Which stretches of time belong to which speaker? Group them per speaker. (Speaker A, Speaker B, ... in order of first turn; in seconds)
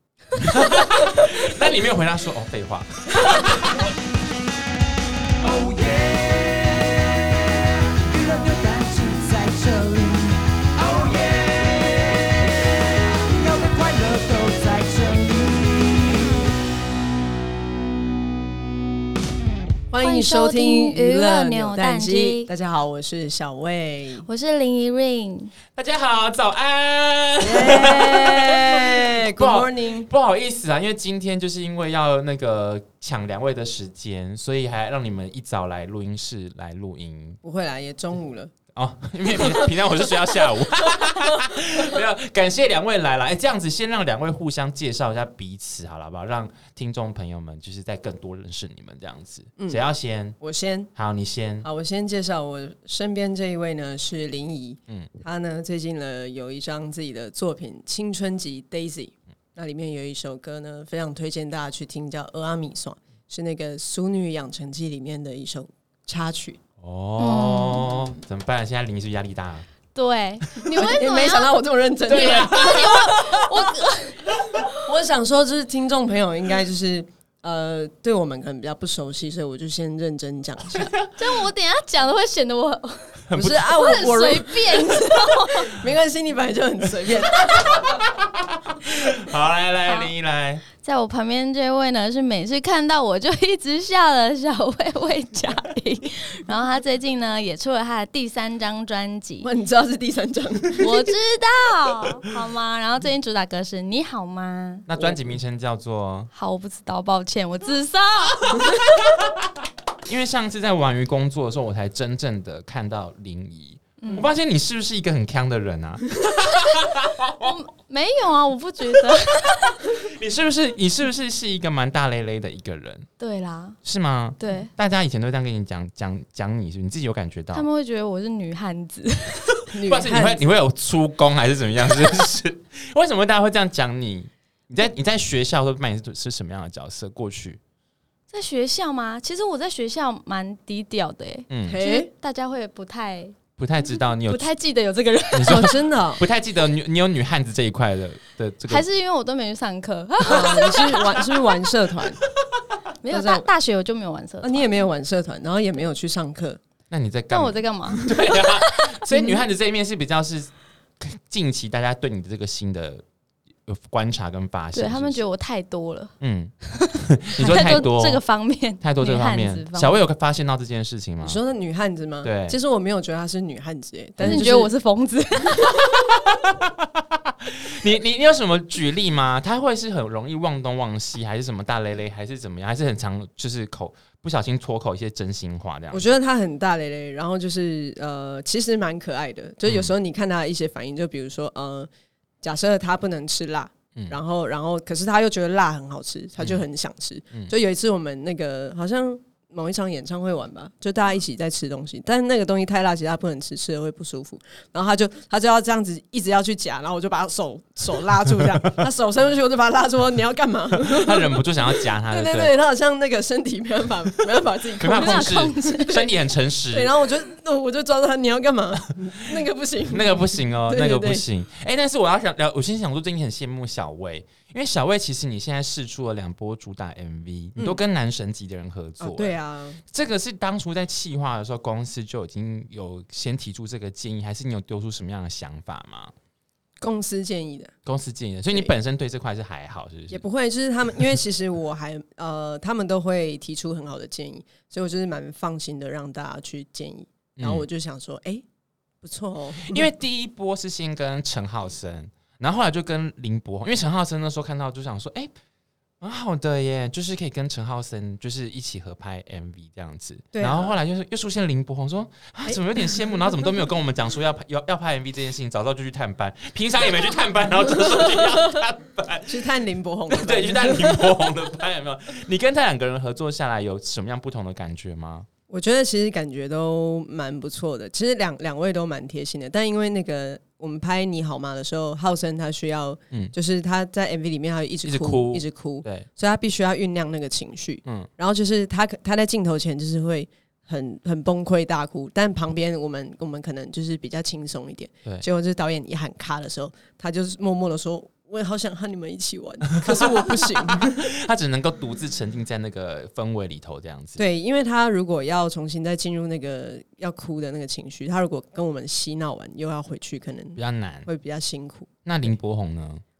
Speaker A: 0.4-3.8, 25.7-37.4, 38.7-50.4, 51.0-51.7, 66.8-69.7, 72.1-73.5, 80.7-81.3, 83.3-84.0, 87.5-90.6, 104.9-106.3, 110.0-117.4, 119.8-123.1, 123.8-127.7, 129.8-137.6, 141.5-141.8, 143.6-144.5, 145.3-148.8, 156.9-163.0, 163.7-165.2, 166.2-168.2, 168.8-171.4, 172.2-172.6, 174.2-174.5, 176.3-186.2, 189.7-189.9, 210.8-212.5, 214.8-216.9, 219.9-236.1, 237.8-240.2, 247.4-247.7, 249.6-255.3, 256.0-269.5, 270.1-275.3, 284.8-286.1, 299.8-304.2, 310.6-311.1, 312.0-313.0
Speaker B: 5.4-16.5
Speaker C: 19.9-24.2, 27.4-30.1, 37.4-38.5, 49.6-49.8, 50.4-50.9, 51.6-66.6, 70.7-72.9, 74.6-80.9, 83.3-87.7, 99.4-101.1, 129.7-130.4, 141.7-142.1, 145.4-146.2, 150.2-152.2, 153.1-153.4, 154.4-156.6, 171.2-174.7, 185.9-191.9, 192.4-215.5, 216.7-221.2, 229.0-229.8, 236.8-237.7, 240.1-248.4, 249.0-249.9, 260.3-260.7, 269.3-271.2, 275.5-301.1, 304.2-311.9
Speaker D: 19.9-22.5, 24.2-25.5, 67.2-67.9, 69.9-74.2, 81.2-83.2, 83.8-85.7, 90.8-99.5, 100.8-104.9, 106.3-108.6, 117.4-119.8, 123.2-123.8, 124.4-124.7, 127.5-129.5, 138.3-143.3, 144.2-145.7, 148.7-150.9, 153.0-154.6, 157.3-159.0, 164.7-166.1, 166.7-170.0, 174.2-176.0, 214.8-216.1